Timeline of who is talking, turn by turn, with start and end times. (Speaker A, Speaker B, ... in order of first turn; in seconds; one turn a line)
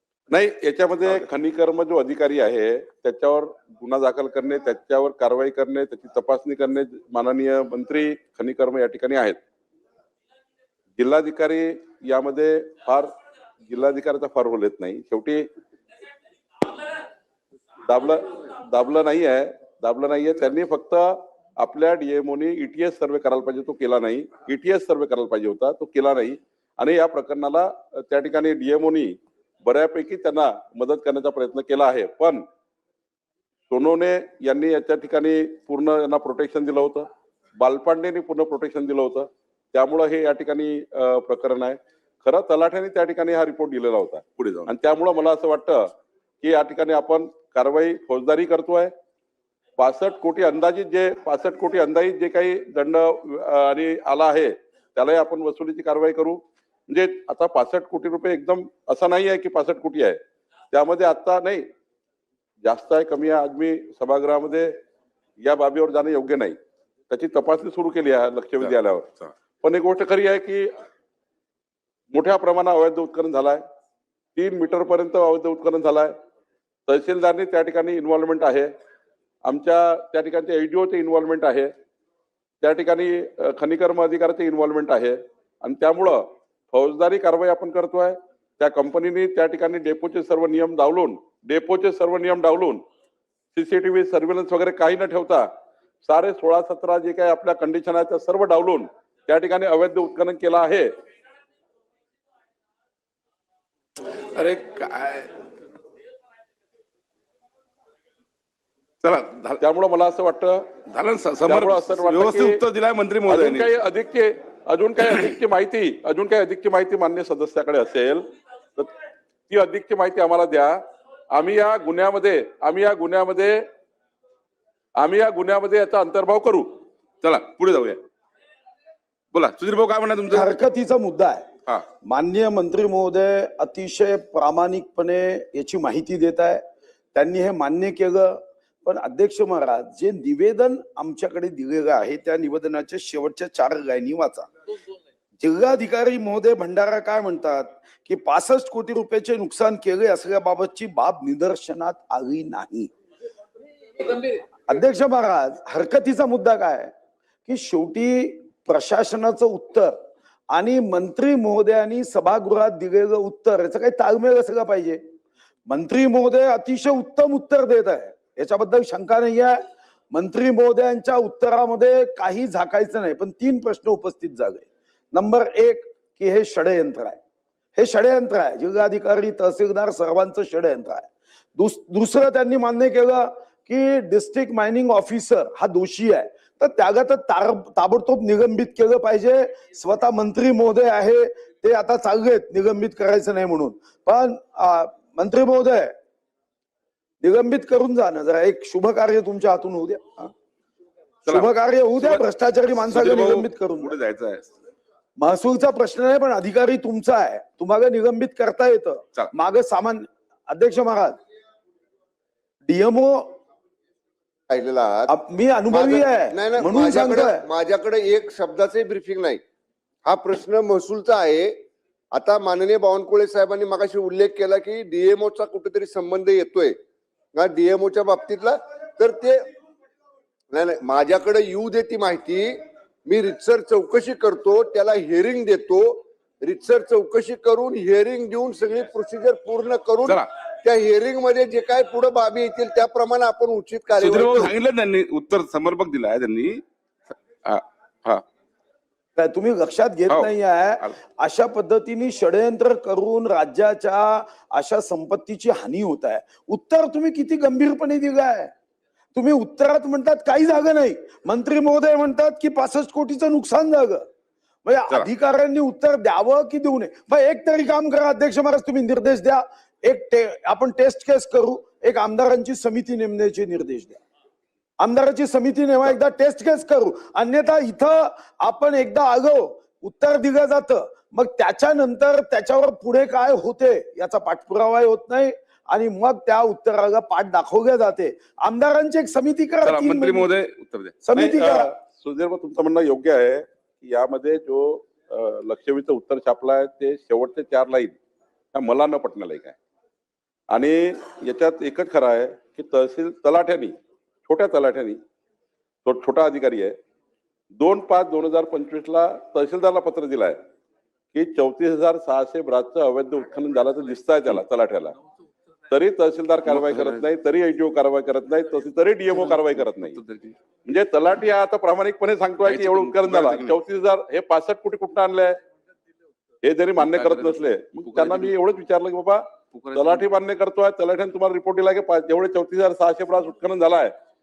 Speaker A: 0.3-9.4
Speaker A: 11.0-13.1
Speaker A: 13.7-15.5
Speaker A: 17.9-32.5
Speaker A: 33.7-37.1
Speaker A: 37.6-45.9
Speaker B: 44.4-44.7
Speaker A: 46.4-48.9
Speaker A: 49.8-60.2
Speaker A: 60.7-61.7
Speaker A: 62.6-64.7
Speaker A: 65.4-66.6
Speaker A: 67.1-70.7
Speaker A: 72.1-73.6
Speaker A: 74.3-76.1
Speaker A: 76.9-78.7
Speaker A: 79.5-81.7
Speaker A: 82.6-92.8
Speaker A: 93.5-95.5
Speaker A: 96.0-100.9
Speaker B: 104.3-105.3
Speaker B: 109.0-109.6
Speaker A: 109.6-110.7
Speaker B: 110.9-113.7
Speaker A: 111.5-112.6
Speaker A: 113.3-118.2
Speaker B: 115.0-115.3
Speaker A: 119.5-120.8
Speaker A: 121.3-123.6
Speaker A: 125.0-126.7
Speaker B: 127.2-128.0
Speaker B: 129.3-130.5
Speaker C: 130.3-131.4
Speaker C: 132.1-136.6
Speaker C: 137.2-144.5
Speaker C: 145.4-152.9
Speaker C: 154.1-156.9
Speaker C: 157.5-159.9
Speaker C: 160.5-165.0
Speaker C: 165.7-177.2
Speaker C: 177.8-195.9
Speaker C: 197.2-200.3
Speaker B: 201.3-202.2
Speaker C: 201.3-204.0
Speaker B: 202.9-204.5
Speaker C: 205.2-211.2
Speaker C: 212.7-213.3
Speaker D: 214.5-215.1
Speaker C: 215.1-217.4
Speaker D: 215.7-219.4
Speaker D: 220.1-221.6
Speaker D: 222.1-226.8
Speaker D: 227.4-229.5
Speaker D: 230.5-244.5
Speaker B: 240.1-240.3
Speaker B: 244.0-246.6
Speaker B: 247.4-248.2
Speaker C: 249.2-258.5
Speaker C: 259.1-264.1
Speaker C: 264.7-274.0
Speaker C: 274.8-290.3
Speaker B: 289.6-291.0
Speaker C: 291.0-291.7
Speaker A: 291.1-298.0
Speaker A: 298.5-299.6
Speaker A: 300.5-303.8
Speaker A: 304.3-305.0
Speaker A: 305.9-306.8
Speaker A: 307.6-310.4
Speaker A: 311.1-314.9
Speaker A: 315.7-320.0
Speaker B: 316.5-317.1
Speaker B: 319.1-320.4
Speaker A: 320.7-325.4
Speaker B: 322.4-323.5
Speaker A: 326.4-333.9
Speaker B: 326.8-328.4
Speaker B: 329.5-330.1